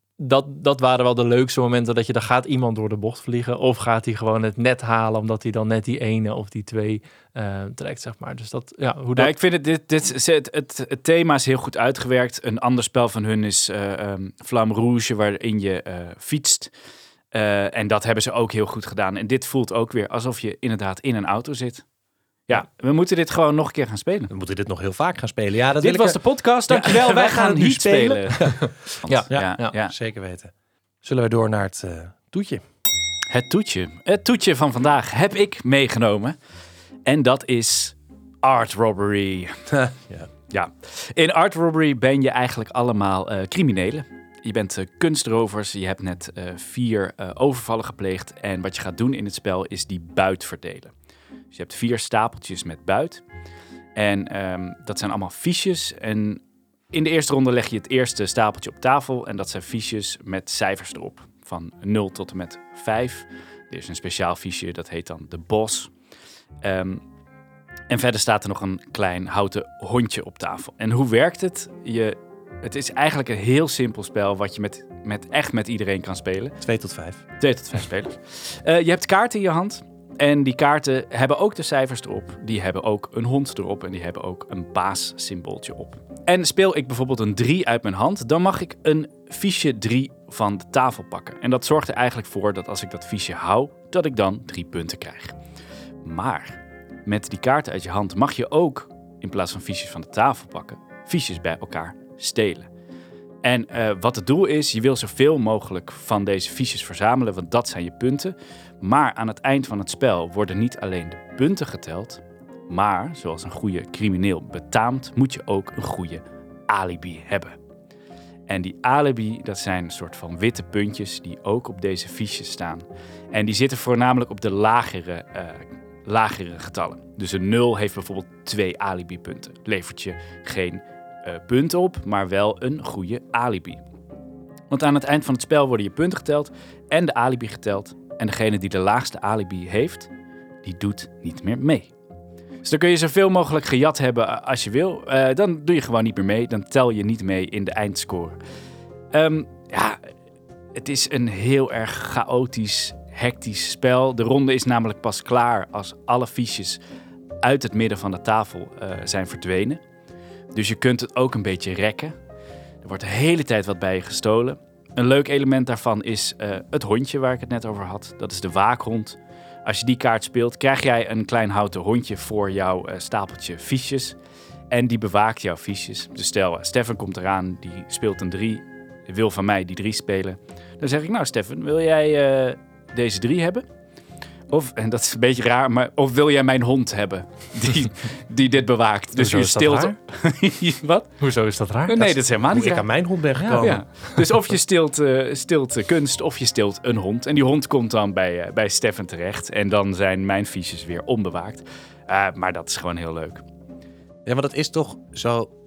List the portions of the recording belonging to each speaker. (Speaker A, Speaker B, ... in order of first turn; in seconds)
Speaker A: 0.2-9.3, 28.3-29.7, 189.2-190.0, 191.2-192.2, 193.4-193.8
Speaker B: 9.2-16.7, 17.3-21.9, 22.5-24.3, 25.8-29.9, 33.3-36.4, 37.1-39.6, 40.5-50.9, 51.5-53.2, 54.0-56.4, 56.9-65.9, 66.6-67.0, 67.9-76.6, 77.4-95.4, 96.0-102.7, 103.4-117.6, 118.5-133.8, 134.7-140.1, 140.6-141.9, 142.6-148.4, 149.1-150.0, 150.8-156.8, 157.4-159.8, 160.5-162.1, 162.8-174.2, 174.7-183.7, 184.5-191.1, 191.9-192.9, 193.6-203.4
Speaker C: 24.3-28.6, 29.3-30.5, 31.0-32.6, 39.7-40.3, 76.6-77.2, 192.5-193.8, 204.3-205.5